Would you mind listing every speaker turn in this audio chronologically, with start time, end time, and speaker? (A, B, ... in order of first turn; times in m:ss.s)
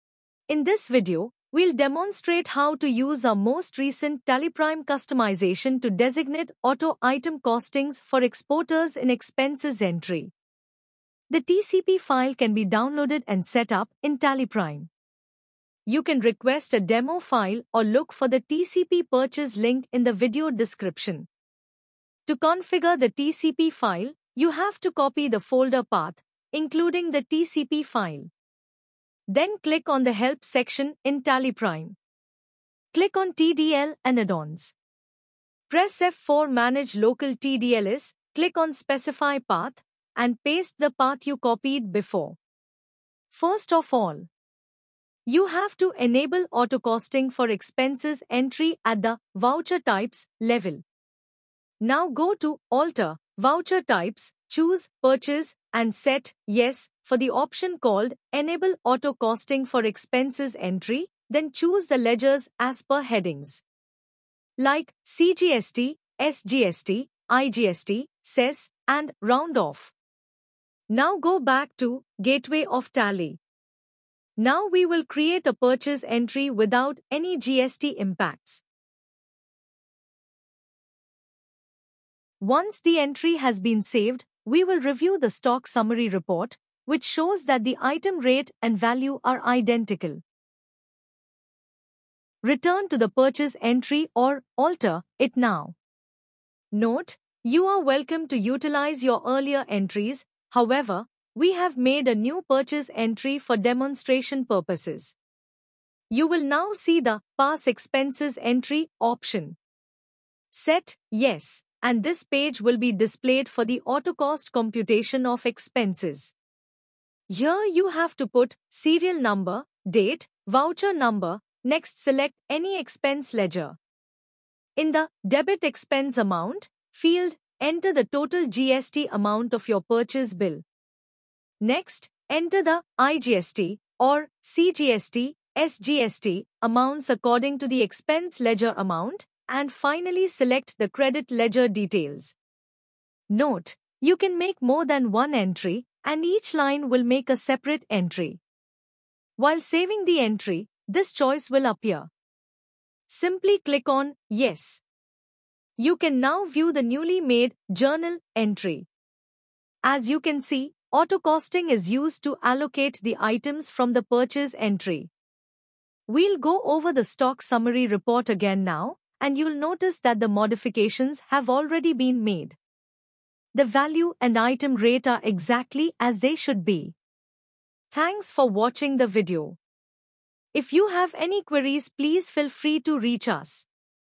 0:00.5-0:10.3 A
0:11.3-0:14.9 A
0:15.9-0:21.3 A
0:22.3-0:28.3 A
0:29.3-0:32.0 A
0:32.9-0:34.8 A
0:35.7-0:42.4 A
0:43.3-0:44.3 A
0:45.3-0:50.8 A
0:51.8-1:03.6 A
1:04.6-1:09.9 A
1:10.9-1:13.4 A
1:14.4-1:18.6 A
1:22.4-1:30.2 A
1:32.4-1:35.8 A
1:36.7-1:45.2 A
1:46.1-1:49.6 A
1:50.5-1:56.3 A
1:57.3-2:03.8 A
2:04.8-2:10.6 A
2:11.6-2:22.4 A
2:23.3-2:28.4 A
2:29.4-2:32.1 A
2:33.1-2:34.8 A
2:35.8-2:38.9 A
2:39.8-2:45.1 A
2:46.1-2:52.6 A
2:53.5-2:57.0 A
2:57.9-2:59.6 A
3:00.5-3:03.7 A